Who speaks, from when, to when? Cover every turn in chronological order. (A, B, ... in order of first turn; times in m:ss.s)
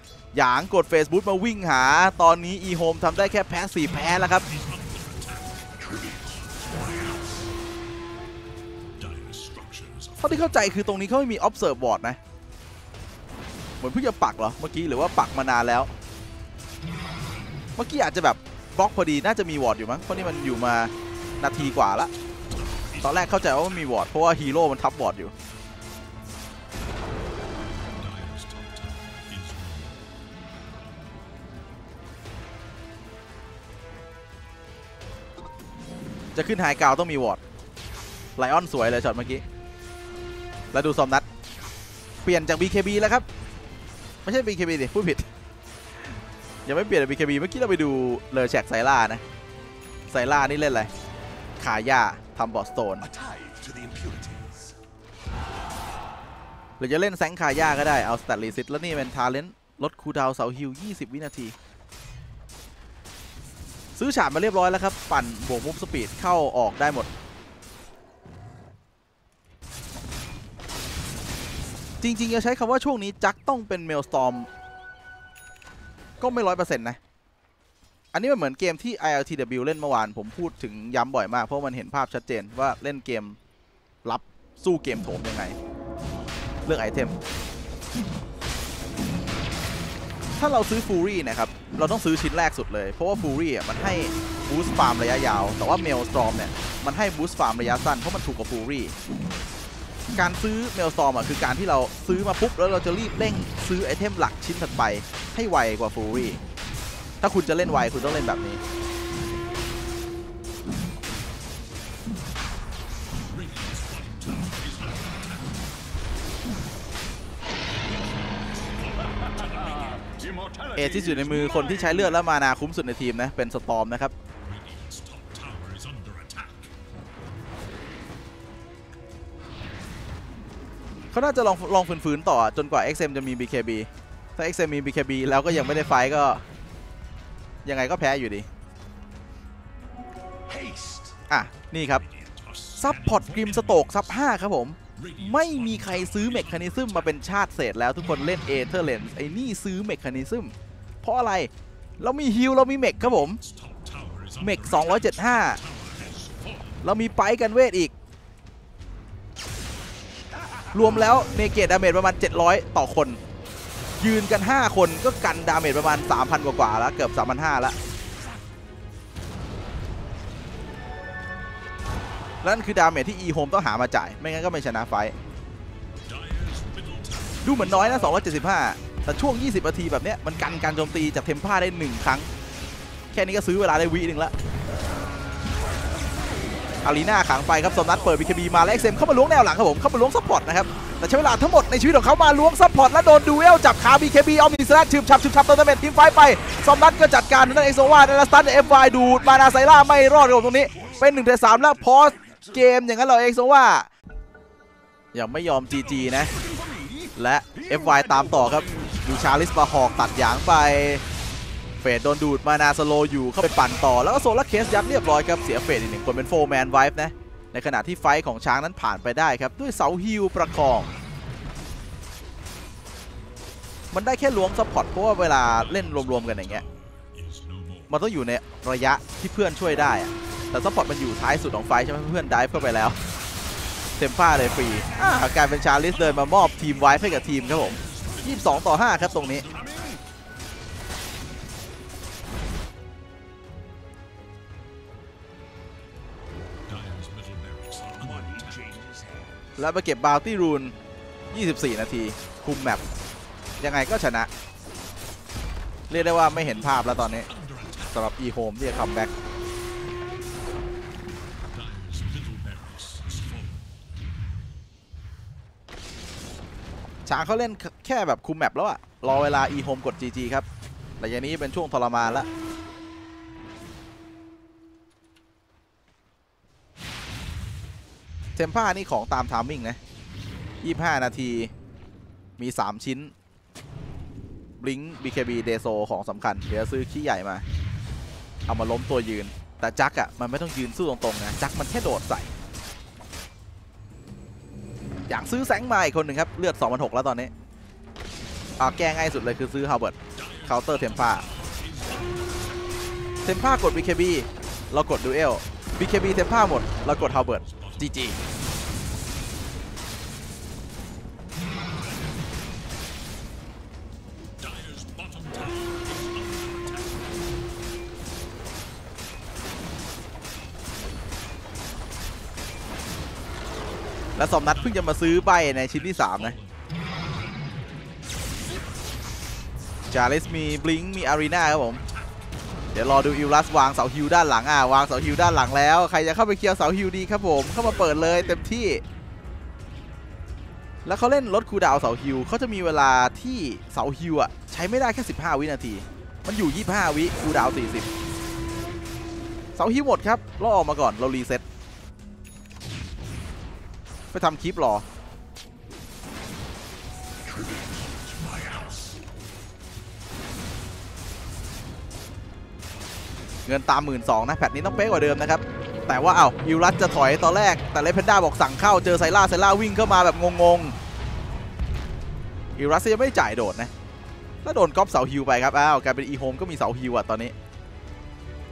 0:00.3-0:04.5 A
0:04.2-0:06.7 B
0:09.0-0:10.8 B
0:10.2-0:12.2 A
0:13.8-0:15.9 A
0:17.8-0:22.1 A
0:21.5-0:24.0 B
0:23.0-0:25.3 A
0:27.9-0:30.0 B
0:36.4-0:37.4 A
0:38.4-0:39.4 A
0:40.7-0:41.3 A
0:42.2-0:43.3 A
0:44.2-0:45.3 A
0:46.7-0:49.2 A
0:50.1-0:50.9 A
0:51.6-0:53.1 A
0:53.0-0:54.7 C
0:56.8-1:01.5 A
1:04.0-1:07.1 A
1:12.0-1:14.5 A
1:16.2-1:17.0 A
1:18.1-1:23.4 A
1:24.0-1:25.6 A
1:26.7-1:27.2 A
1:30.4-1:38.9 A
1:40.2-1:46.4 A
1:47.2-1:48.6 A
1:53.1-1:55.7 B
1:57.9-2:00.2 B
1:59.2-2:02.1 C
2:00.8-2:04.1 A
2:04.4-2:06.7 B
2:11.1-2:16.4 A
2:17.6-2:18.5 A
2:20.5-2:21.2 C
2:21.3-2:22.0 A
2:21.9-2:24.0 B
2:22.8-2:33.4 A
2:24.9-2:27.2 B
2:33.0-2:36.9 B
2:34.4-2:35.6 A
2:36.8-2:37.9 A
2:40.7-2:43.2 A
2:44.0-2:47.8 A
2:52.4-2:55.1 A
2:56.1-2:58.6 B
2:57.4-3:02.3 A
3:03.1-3:04.3 A
3:06.8-3:23.9 A
3:19.5-3:21.0 B
3:20.6-3:22.7 C
3:25.1-3:26.3 A
3:26.1-3:29.4 C
3:27.2-3:31.0 A
3:31.8-3:40.9 A
3:43.9-3:46.6 A
3:45.4-3:48.0 B
3:47.9-3:53.0 A
3:54.0-3:59.5 A
3:55.8-4:00.0 B
3:59.4-4:00.0 C
4:06.7-4:08.6 B
4:07.9-4:09.4 C
4:09.6-4:10.8 A
4:11.3-4:12.8 A
4:13.6-4:14.3 A
4:15.9-4:17.3 A
4:15.9-4:18.2 B
4:17.9-4:19.1 A
4:21.5-4:23.9 B
4:27.1-4:30.4 A
4:31.0-4:32.3 A
4:38.4-4:39.8 A
4:40.6-4:41.5 A
4:42.4-4:43.1 A
4:44.6-4:47.4 A
4:48.5-4:52.3 A
4:55.1-4:57.3 A
4:58.6-5:01.3 A
5:00.1-5:03.0 B
5:03.2-5:08.2 A
5:06.8-5:08.5 B
5:11.9-5:12.2 B
5:14.4-5:17.2 B
5:24.2-5:26.4 A
5:24.5-5:27.6 B
5:29.9-5:31.8 A
5:29.9-5:32.3 B
5:32.7-5:38.8 A
5:40.8-5:47.9 A
5:49.6-5:51.4 A
5:54.1-5:54.8 A
6:03.5-6:10.7 A
6:12.6-6:13.7 A
6:14.4-6:17.3 A